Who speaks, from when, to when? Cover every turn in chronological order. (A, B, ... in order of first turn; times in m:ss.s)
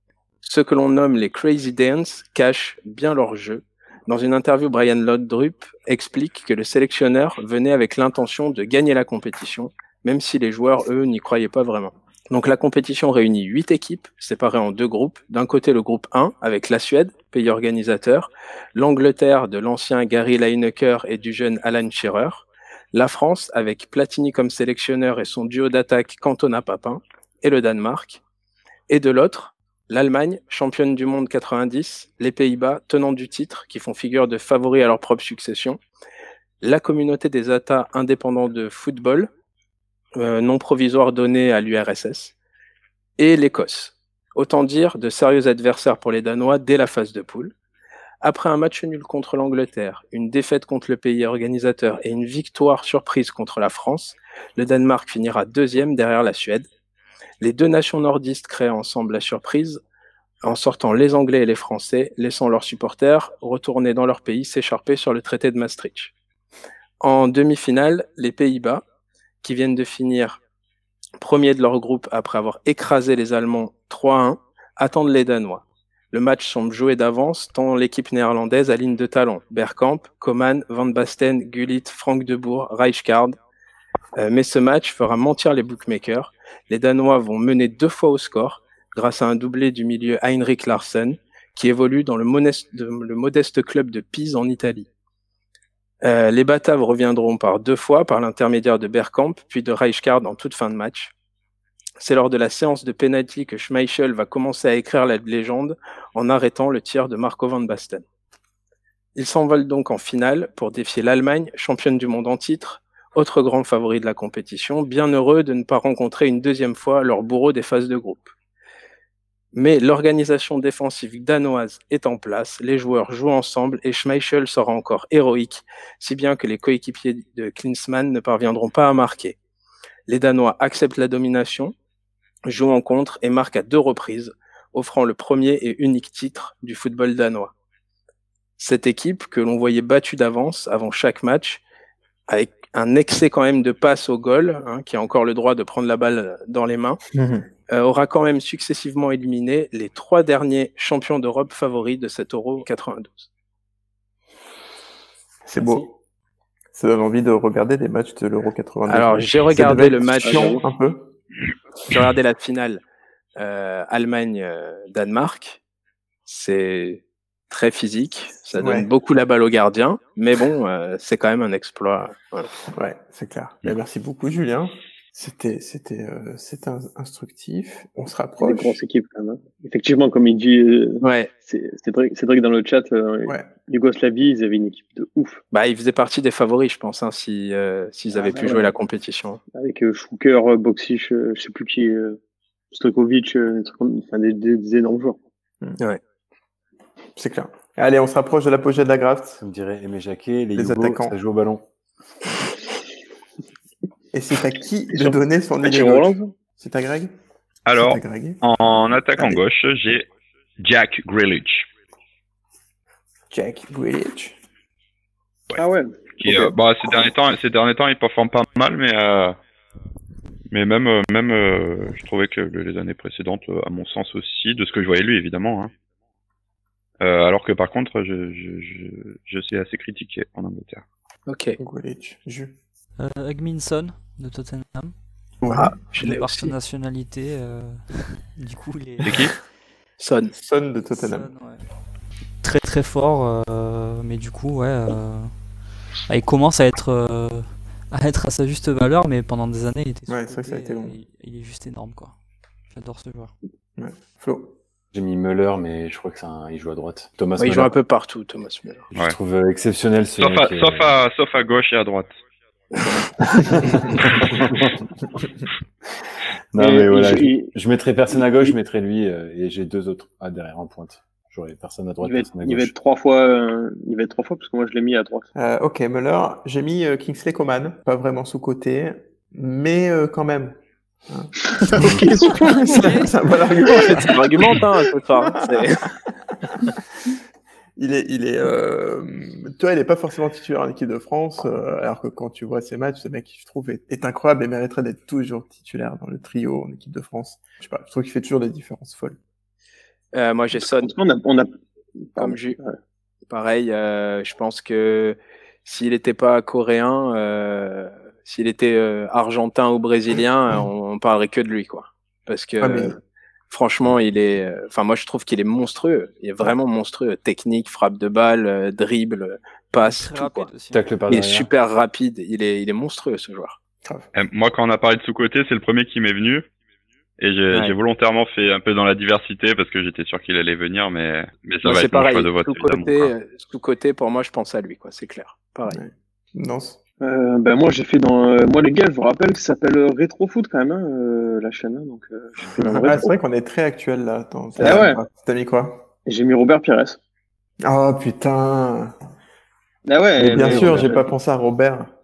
0:00.4-0:28.2 A
0:28.9-0:35.8 A
0:36.6-0:39.3 A
0:40.2-0:42.3 A
0:43.2-0:47.5 A
0:48.2-0:56.7 A
0:57.4-0:59.8 A
1:00.4-1:06.1 A
1:07.0-1:08.8 A
1:09.4-1:10.4 A
1:11.2-1:23.4 A
1:24.2-1:34.9 A
1:36.0-1:41.1 A
1:42.0-1:48.0 A
1:49.2-1:58.3 A
1:59.5-2:09.4 A
2:10.1-2:11.7 A
2:12.5-2:17.5 A
2:18.6-2:21.6 A
2:22.3-2:27.0 A
2:27.1-2:27.4 B
2:27.7-2:33.3 A
2:35.4-2:35.9 B
2:35.6-2:35.9 C
2:36.7-2:41.1 B
2:38.9-2:40.6 A
2:40.2-2:40.6 D
2:41.9-2:42.8 A
2:43.4-2:45.6 A
2:46.3-2:52.5 A
2:48.6-2:48.9 B
2:52.7-2:58.8 B
2:58.4-3:05.4 D
3:01.0-3:01.3 A
3:03.2-3:03.5 B
3:05.5-3:09.4 A
3:08.2-3:08.7 D
3:09.5-3:12.2 D
3:12.7-3:15.2 D
3:17.2-3:19.4 B
3:19.4-3:21.6 C
3:20.6-3:21.2 B
3:24.1-3:27.1 B
3:24.9-3:26.3 D
3:27.6-3:30.1 E
3:27.8-3:28.4 B
3:29.2-3:29.4 B
3:30.6-3:31.7 E
3:33.3-3:34.4 B
3:35.6-3:36.5 D
3:36.2-3:39.4 E
3:40.5-3:45.7 E
3:47.0-3:50.8 E
3:51.3-3:51.6 A
3:51.6-3:52.6 B
3:53.0-3:54.9 F
3:55.4-3:55.9 B
3:55.6-3:56.5 A
3:56.0-3:59.4 F
3:59.0-3:59.3 E
4:00.0-4:00.3 A
4:00.4-4:01.3 B
4:00.9-4:01.6 F
4:02.4-4:05.3 F
4:06.1-4:12.1 F
4:10.1-4:11.0 B
4:12.7-4:13.3 F
4:13.8-4:14.6 B
4:14.9-4:17.7 C
4:17.4-4:18.9 A
4:18.9-4:20.9 C
4:20.2-4:22.1 E
4:23.2-4:24.9 C
4:26.5-4:32.7 C
4:26.6-4:27.5 D
4:28.1-4:28.5 D
4:32.0-4:35.3 D
4:35.3-4:40.6 B
4:41.1-4:44.6 B
4:41.5-4:42.9 D
4:41.7-4:42.1 C
4:42.3-4:43.3 F
4:43.6-4:45.9 A
4:45.2-4:45.6 B
4:47.8-4:59.2 B
5:00.1-5:00.9 A
5:00.6-5:01.5 D
5:02.0-5:02.8 D
5:02.2-5:02.6 A
5:03.3-5:13.0 A
5:12.6-5:13.0 B
5:13.5-5:20.5 A
5:19.8-5:20.9 F
5:20.7-5:21.5 C
5:21.1-5:23.6 A
5:24.1-5:26.5 E
5:27.2-5:33.1 E
5:31.6-5:35.8 A
5:35.7-5:36.8 B
5:37.0-5:43.1 D
5:42.6-5:42.9 A
5:42.8-5:45.9 B
5:44.6-5:45.0 D
5:46.0-5:47.0 D
5:47.6-5:48.9 B
5:49.9-5:51.1 D
5:50.2-5:51.9 B
5:50.3-5:50.9 C